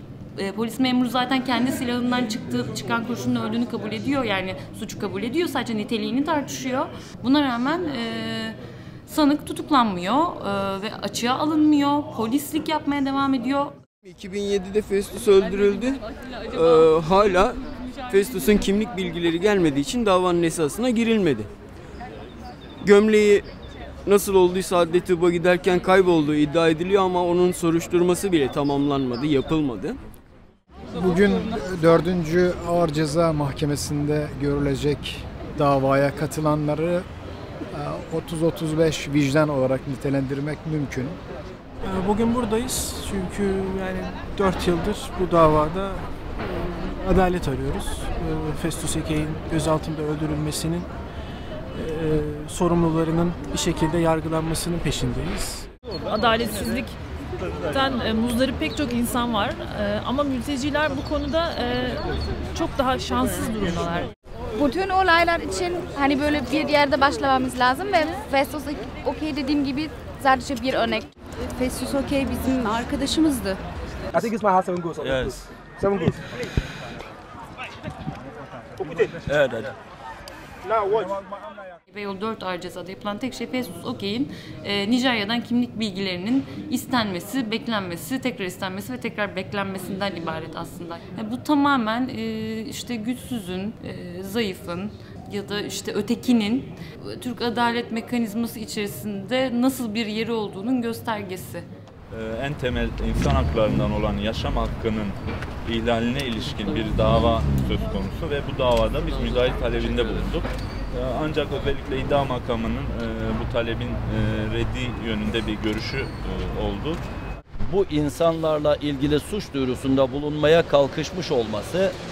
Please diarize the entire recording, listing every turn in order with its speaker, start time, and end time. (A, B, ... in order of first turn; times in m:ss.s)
0:00.4-0:13.7 A
0:14.0-0:21.5 B
0:22.8-0:23.4 B
0:24.0-0:30.0 B
0:31.0-0:37.0 C
0:37.7-0:41.2 C
0:41.8-0:46.0 D
0:46.6-0:50.9 D
0:51.7-0:55.6 D
0:56.1-0:56.9 E
0:57.7-1:04.1 E
1:04.6-1:11.1 F
1:11.6-1:13.6 F
1:14.1-1:16.2 G
1:15.0-1:15.4 H
1:18.8-1:19.1 G
1:19.3-1:19.7 H
1:20.6-1:21.1 G
1:21.9-1:41.6 A
1:42.1-1:57.0 H
1:57.7-2:01.9 I